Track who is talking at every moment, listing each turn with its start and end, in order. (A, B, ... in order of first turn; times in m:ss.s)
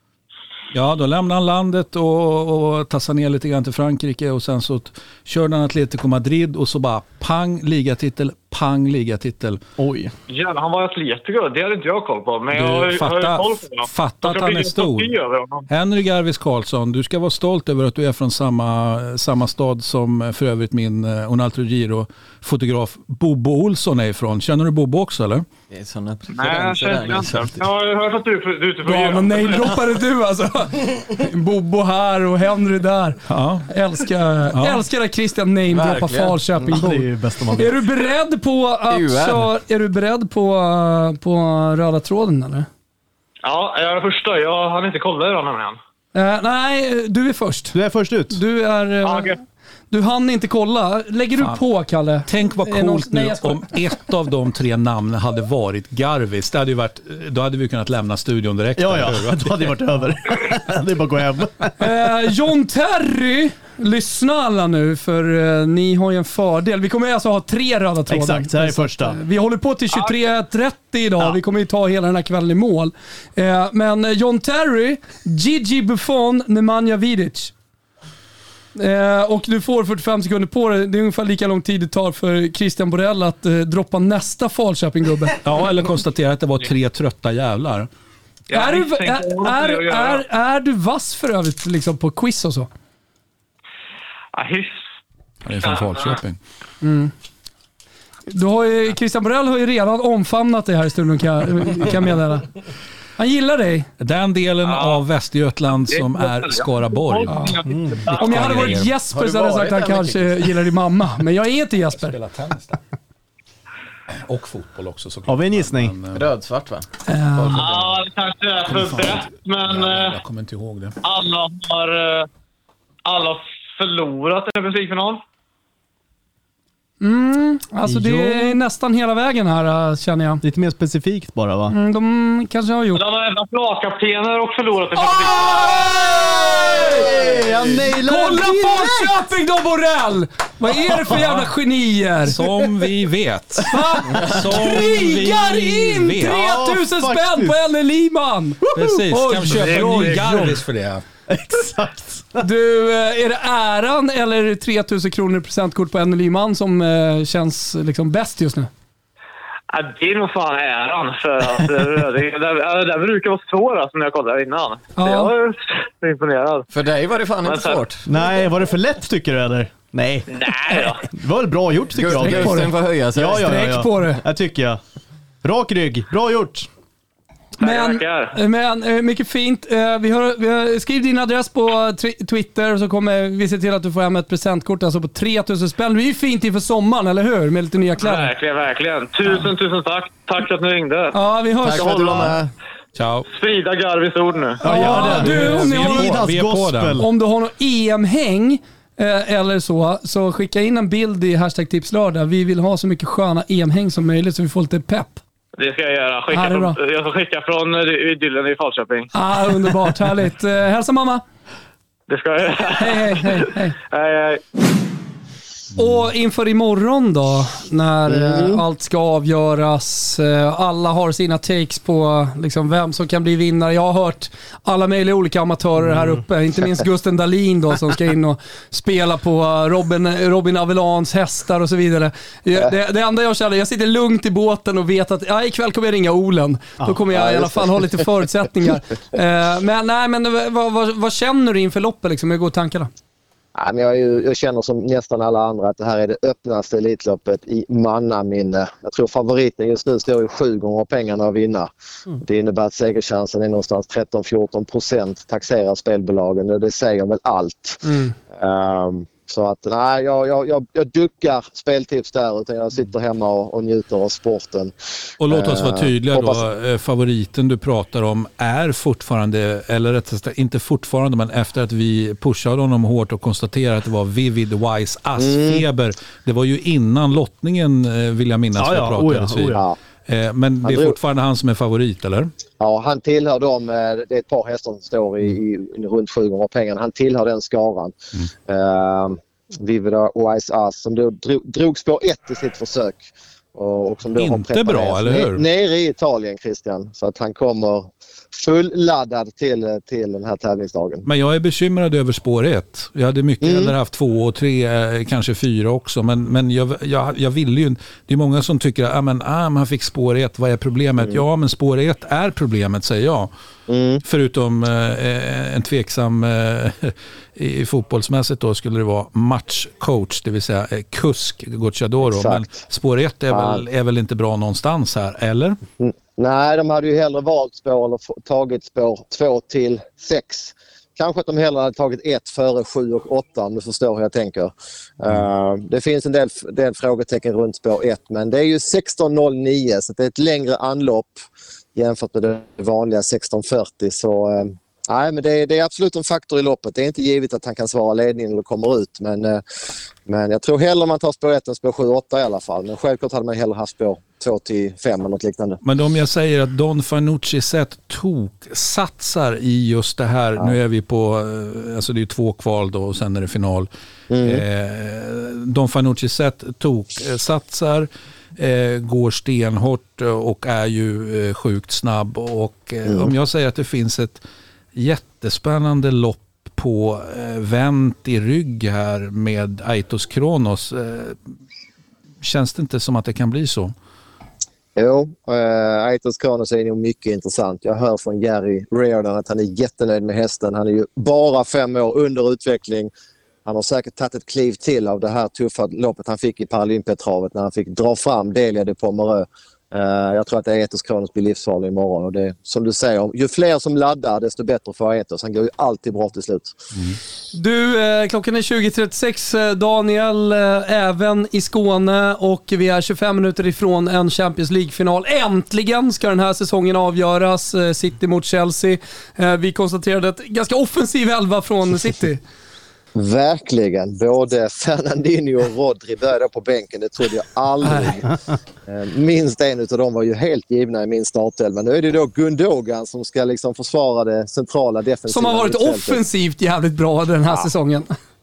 0:00.7-0:09.6 A
0:09.8-0:10.1 B
0:10.3-0:15.7 C
0:12.5-0:15.1 A
0:15.7-0:25.4 A
0:25.7-0:27.6 D
0:26.3-0:29.8 C
0:28.8-0:42.7 E
0:33.3-0:33.7 A
0:34.5-0:34.8 A
0:35.7-0:36.7 D
0:36.7-0:37.7 B
0:38.9-0:39.5 D
0:43.4-0:45.8 C
0:46.1-0:47.8 E
0:47.7-0:48.4 B
0:48.3-0:49.4 E
0:49.0-0:49.4 C
0:49.9-0:53.6 E
0:52.2-0:59.8 A
0:58.8-1:01.9 B
1:01.8-1:17.5 E
1:08.1-1:09.2 B
1:18.8-1:25.4 E
1:25.4-1:27.9 A
1:28.5-1:30.2 C
1:28.5-1:32.7 E
1:34.4-1:34.8 C
1:35.4-1:36.4 A
1:35.7-1:36.1 C
1:36.8-1:37.1 E
1:38.3-1:42.5 E
1:43.2-1:43.9 E
1:44.0-1:47.5 A
1:44.6-1:45.0 C
1:45.9-1:48.6 C
1:47.7-1:48.0 B
1:48.2-1:48.9 A
1:48.2-1:52.2 E
1:48.5-1:50.6 D
1:52.0-1:52.8 A
1:54.3-1:56.2 A
1:55.3-1:56.0 B
1:56.1-1:56.9 D
1:57.1-1:57.6 E
1:57.4-1:58.0 D
1:57.6-2:00.2 C
1:58.7-2:01.0 A
2:01.0-2:02.3 C
2:03.1-2:05.2 C
2:07.0-2:10.4 E
2:07.9-2:08.6 B
2:10.4-2:11.8 B
2:11.7-2:13.0 E
2:12.9-2:15.7 C
2:15.3-2:17.2 E
2:16.6-2:19.2 B
2:17.9-2:22.4 E
2:21.2-2:21.4 A
2:22.2-2:26.4 A
2:23.7-2:30.5 E
2:26.2-2:27.6 B
2:28.6-2:29.0 B
2:28.8-2:31.0 A
2:29.6-2:30.2 C
2:31.3-2:32.5 B
2:32.4-2:38.7 E
2:39.7-2:46.7 C
2:45.0-2:45.3 E
2:46.7-2:48.0 D
2:47.4-2:47.9 C
2:48.1-2:50.4 B
2:50.3-2:51.1 C
2:51.0-2:54.8 B
2:51.9-2:53.5 D
2:52.2-2:52.8 E
2:53.3-2:54.2 E
2:55.4-2:56.7 B
2:57.6-3:08.3 E
2:57.6-2:58.4 C
3:08.0-3:11.2 C
3:11.1-3:12.3 E
3:11.7-3:12.4 C
3:11.8-3:12.2 D
3:13.0-3:13.3 A
3:13.3-3:14.6 C
3:14.6-3:17.1 B
3:14.6-3:16.2 E
3:14.9-3:17.0 A
3:17.0-3:25.2 E
3:25.6-3:29.1 C
3:26.3-3:26.8 E
3:29.1-3:31.2 E
3:32.1-3:34.4 C
3:32.8-3:33.8 E
3:35.8-4:02.9 E
3:38.1-3:38.6 F
3:57.1-3:58.0 F
4:03.6-4:17.8 F
4:17.8-4:18.2 E
4:18.3-4:24.7 F
4:25.2-4:42.3 A
4:25.3-4:26.4 F
4:35.2-4:35.6 F
4:38.6-4:39.6 B
4:40.6-4:41.0 F
4:42.6-4:47.9 F
4:48.5-5:01.1 F
4:54.2-4:55.4 A
5:01.0-5:13.3 A
5:03.4-5:03.7 F
5:13.7-5:14.0 F
5:14.0-5:25.6 A
5:22.0-5:22.5 F
5:23.3-5:23.6 F
5:25.8-5:41.1 F
5:41.8-5:49.4 F
5:50.1-5:55.6 F
5:55.6-6:03.7 A
6:04.1-6:04.4 F
6:04.2-6:14.2 A
6:12.9-6:13.1 F
6:14.8-6:21.2 A
6:22.2-6:23.7 A
6:24.8-6:32.9 F
6:33.5-6:46.6 F
6:47.3-7:02.2 E
7:03.0-7:16.0 F
7:07.6-7:07.9 E
7:15.1-7:17.9 E